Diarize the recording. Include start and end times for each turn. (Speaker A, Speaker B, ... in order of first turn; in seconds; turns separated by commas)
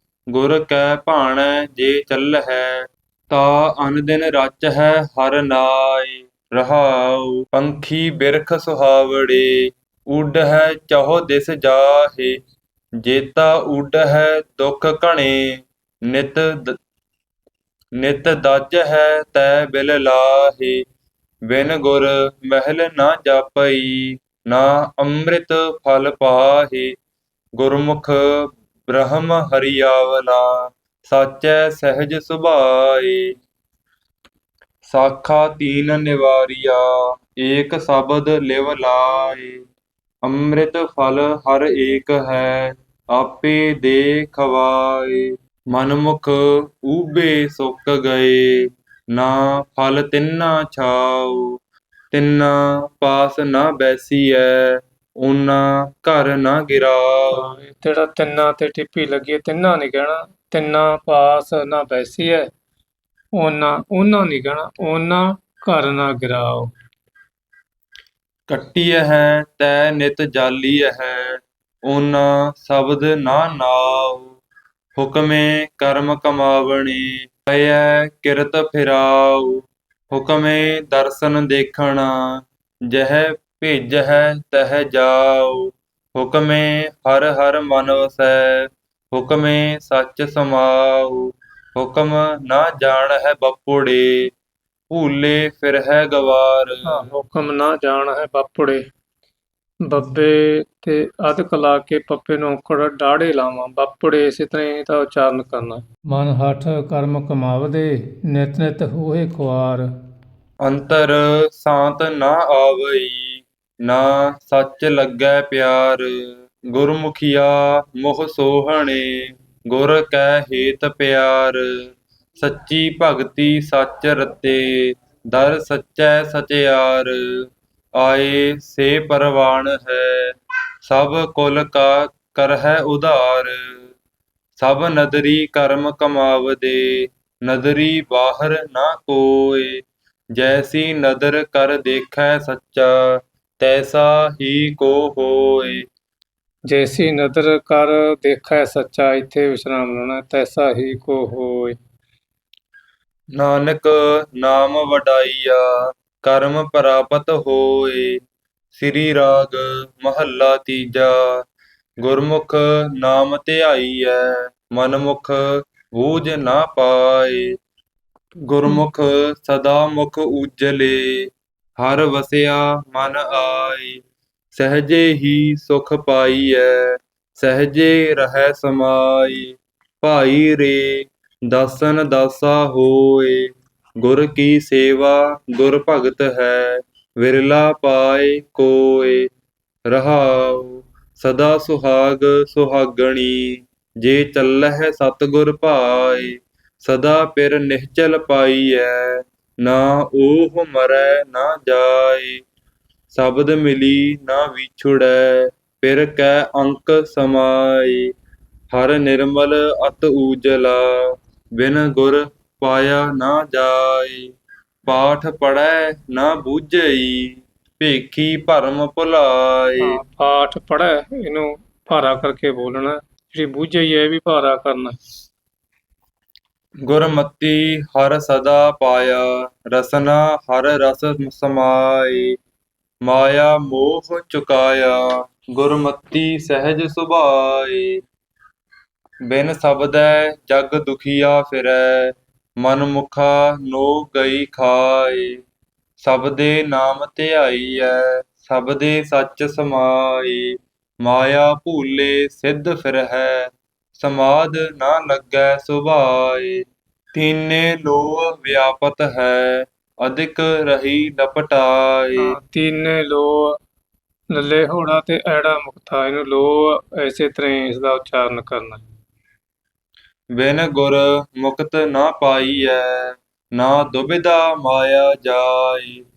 Speaker A: 0.3-12.4, Speaker A: 13.0-16.8, Speaker A: 18.0-20.8, Speaker A: 21.5-26.9, Speaker A: 27.6-33.3, Speaker A: 34.9-39.6, Speaker A: 40.2-51.6, Speaker A: 52.1-57.5, Speaker B: 57.3-62.5, Speaker B: 63.4-66.7, Speaker A: 68.5-74.4, Speaker A: 75.0-94.3, Speaker A: 94.9-97.0, Speaker B: 96.9-98.8, Speaker B: 99.9-109.8, Speaker A: 110.6-121.9, Speaker A: 122.4-127.4, Speaker A: 128.0-130.3, Speaker A: 130.8-133.9, Speaker A: 134.6-139.8, Speaker A: 140.3-145.8, Speaker B: 146.7-151.8, Speaker A: 153.4-158.2, Speaker A: 158.7-161.4, Speaker A: 162.0-167.5, Speaker A: 168.5-171.3, Speaker A: 171.8-174.0, Speaker A: 174.5-183.5, Speaker A: 184.0-189.3, Speaker A: 189.9-202.4, Speaker A: 203.1-208.1, Speaker A: 208.7-211.0, Speaker A: 211.6-214.3, Speaker A: 214.9-220.0, Speaker B: 219.8-225.0, Speaker A: 226.9-232.3, Speaker A: 233.1-238.0, Speaker A: 239.3-245.4, Speaker A: 246.0-256.6, Speaker A: 257.1-262.3, Speaker B: 262.2-263.6, Speaker B: 264.3-268.8, Speaker A: 270.4-276.0